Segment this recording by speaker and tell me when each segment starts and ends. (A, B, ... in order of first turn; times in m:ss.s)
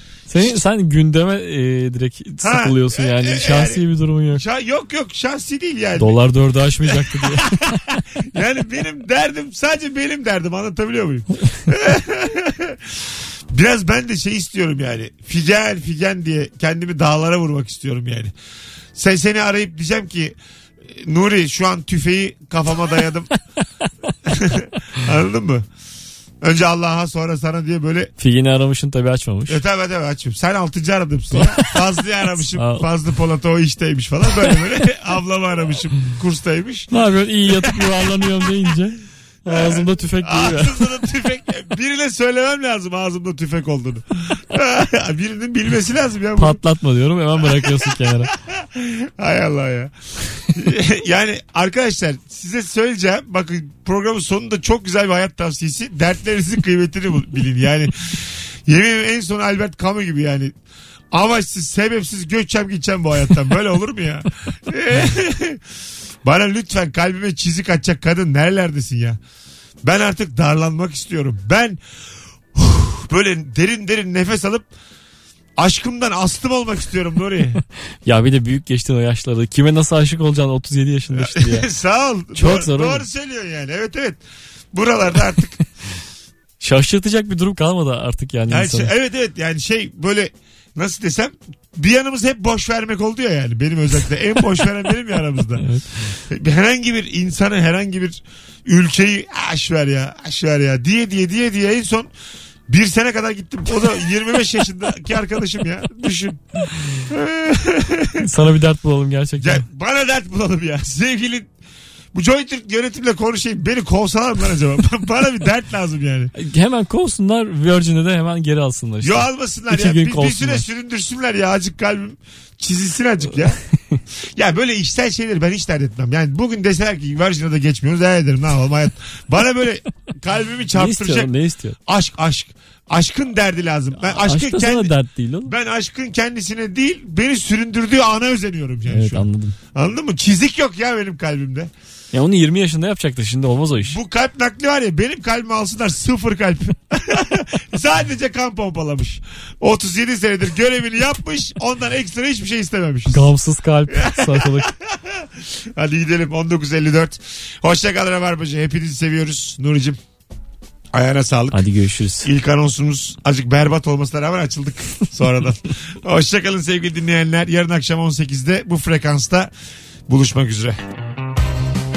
0:00.3-0:04.4 A
0:02.4-0:06.2 B
0:06.0-0:07.6 A
0:06.8-0:12.9 B
0:13.5-0:18.3 B
0:19.0-0:20.4 B
0:20.9-0:23.3 B
0:24.3-0:25.7 B
0:26.4-0:28.1 B
0:28.2-0:29.6 A
0:29.5-0:36.9 B
0:31.3-0:31.8 A
0:32.5-0:32.9 A
0:36.9-0:40.9 A
0:37.5-0:38.0 B
0:39.5-0:46.6 B
0:46.4-0:48.3 A
0:47.4-0:49.9 B
0:50.5-1:00.5 B
1:01.1-1:05.6 B
1:06.2-1:09.2 B
1:09.8-1:11.8 B
1:12.5-1:14.7 B
1:15.6-1:17.6 B
1:18.0-1:21.7 A
1:21.2-1:24.2 B
1:22.4-1:23.0 A
1:24.7-1:25.6 B
1:26.6-1:28.9 A
1:28.5-1:35.6 B
1:35.6-1:35.9 A
1:36.3-1:42.1 B
1:42.7-1:48.2 B
1:48.2-1:49.6 A
1:49.4-1:51.5 B
1:52.1-1:56.3 B
1:56.4-2:00.7 A
1:59.0-2:03.6 B
2:04.4-2:11.3 B
2:10.8-2:11.8 A
2:11.9-2:14.9 B
2:13.9-2:15.5 A
2:15.4-2:21.7 B
2:18.9-2:19.6 A
2:22.1-2:24.0 A
2:23.8-2:33.3 B
2:33.1-2:34.7 A
2:33.9-2:40.0 B
2:40.9-2:41.6 B
2:41.5-2:42.3 A
2:42.2-2:49.5 B
2:50.1-2:50.8 B